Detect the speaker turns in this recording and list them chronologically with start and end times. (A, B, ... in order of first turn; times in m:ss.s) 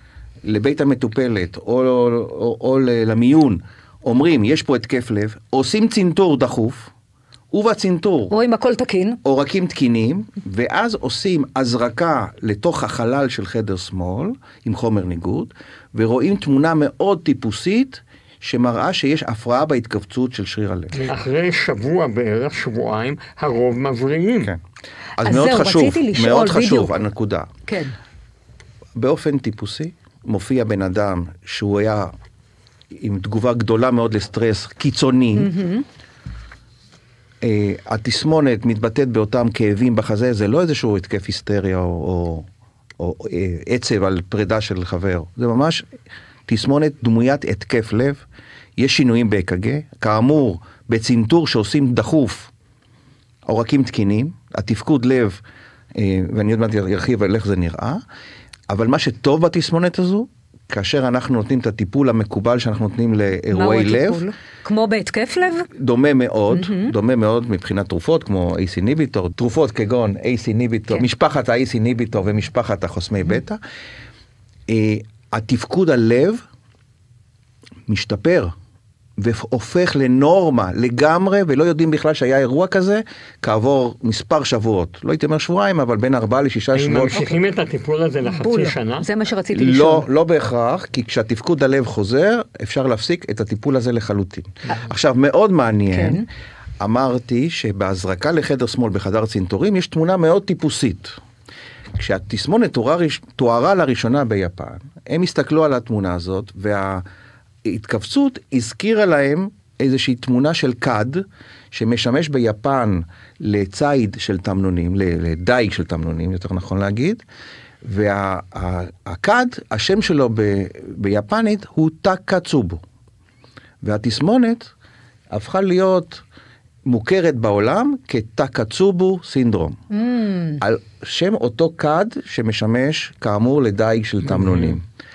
0:00.4-0:06.9 A
0:07.5-0:08.3 A
0:08.3-0:09.2 B
0:09.2-0:21.0 A
0:21.0-0:24.5 C
0:25.2-0:27.5 A
0:25.2-0:27.1 B
0:27.7-0:27.9 B
0:29.0-0:32.1 A
0:32.9-0:35.5 A
0:35.4-0:35.9 B
0:37.4-0:42.5 A
0:43.0-0:45.9 A
0:46.5-0:48.2 A
0:48.8-0:52.5 A
0:53.5-0:55.4 A
0:56.0-0:58.0 A
0:58.7-1:04.2 A
1:03.5-1:05.7 B
1:05.7-1:13.6 A
1:06.5-1:06.9 B
1:14.7-1:16.4 A
1:17.9-1:18.5 A
1:19.2-1:27.2 A
1:26.7-1:29.0 C
1:28.3-1:30.1 B
1:29.5-1:36.2 A
1:35.9-1:36.3 B
1:36.8-1:41.2 A
1:42.0-1:47.0 A
1:47.6-1:57.2 A
1:57.8-2:02.8 A
2:03.8-2:04.7 A
2:05.3-2:06.2 A
2:06.9-2:09.8 A
2:09.9-2:10.6 B
2:10.6-2:14.8 A
2:14.2-2:14.8 C